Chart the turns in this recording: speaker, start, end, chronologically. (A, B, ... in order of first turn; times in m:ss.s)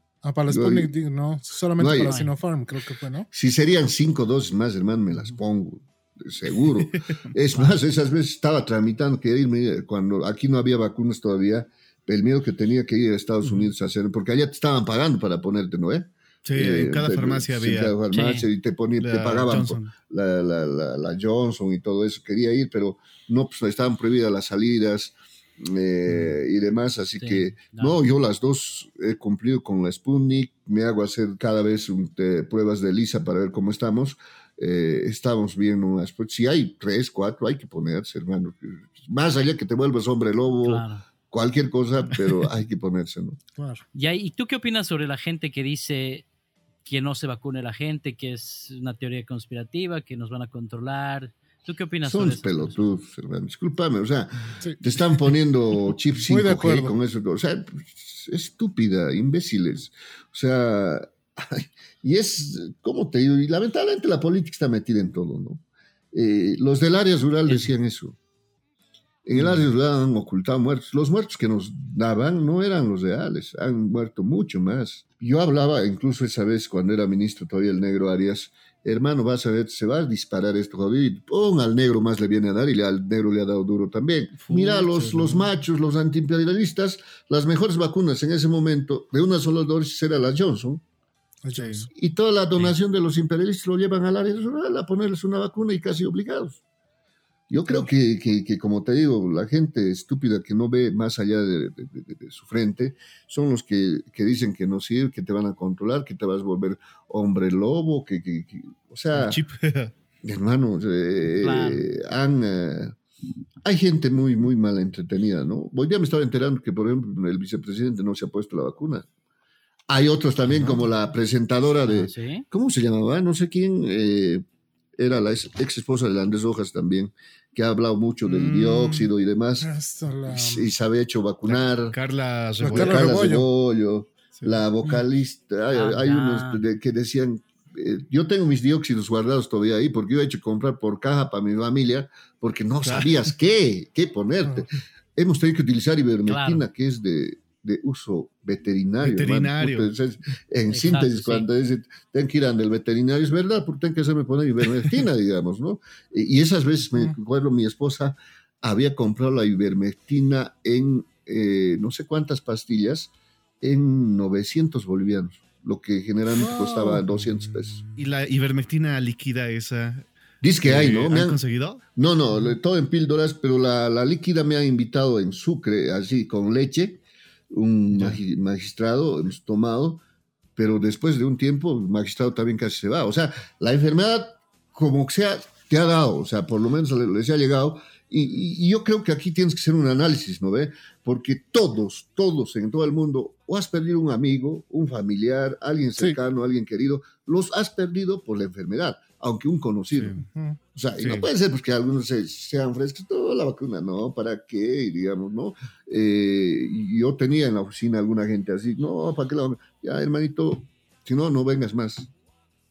0:00.2-0:03.3 A
0:00.5-0:00.9 B
0:01.8-0:02.2 B
0:02.0-0:02.4 C
0:03.3-0:43.4 B
0:16.5-0:18.0 D
0:18.1-0:18.5 C
0:19.0-0:19.9 D
0:27.2-0:28.0 C
0:40.6-0:41.0 C
0:43.6-0:43.8 A
0:44.0-0:46.2 C
0:46.8-0:52.8 C
0:52.0-1:08.2 B
0:56.2-0:56.9 A
1:09.3-1:30.8 B
1:09.3-1:09.6 D
1:24.4-1:25.5 D
1:31.4-1:31.9 A
1:31.5-1:31.9 D
1:31.9-1:36.6 B
1:37.5-1:49.4 B
1:49.1-1:49.9 D
1:50.2-1:53.0 B
1:51.4-1:51.8 C
1:53.6-1:59.1 B
1:59.9-2:04.4 B
2:01.8-2:02.4 C
2:05.0-2:09.7 B
2:08.2-2:09.1 D
2:09.6-2:10.7 A
2:10.3-2:12.0 B
2:11.5-2:13.1 D
2:12.6-2:13.5 A
2:12.7-2:47.8 B
2:15.7-2:16.6 C
2:22.8-2:23.2 D
2:26.3-2:26.6 C
2:29.0-2:29.9 D
2:30.7-2:31.5 C
2:46.4-2:47.0 A
2:47.9-2:50.1 D
2:50.4-2:51.4 B
2:50.6-2:51.8 D
2:52.0-3:00.0 B
2:57.9-2:58.2 D
3:00.6-3:20.2 B
3:19.9-3:20.2 D
3:20.3-3:20.6 A
3:20.7-3:32.1 B
3:21.0-3:21.3 D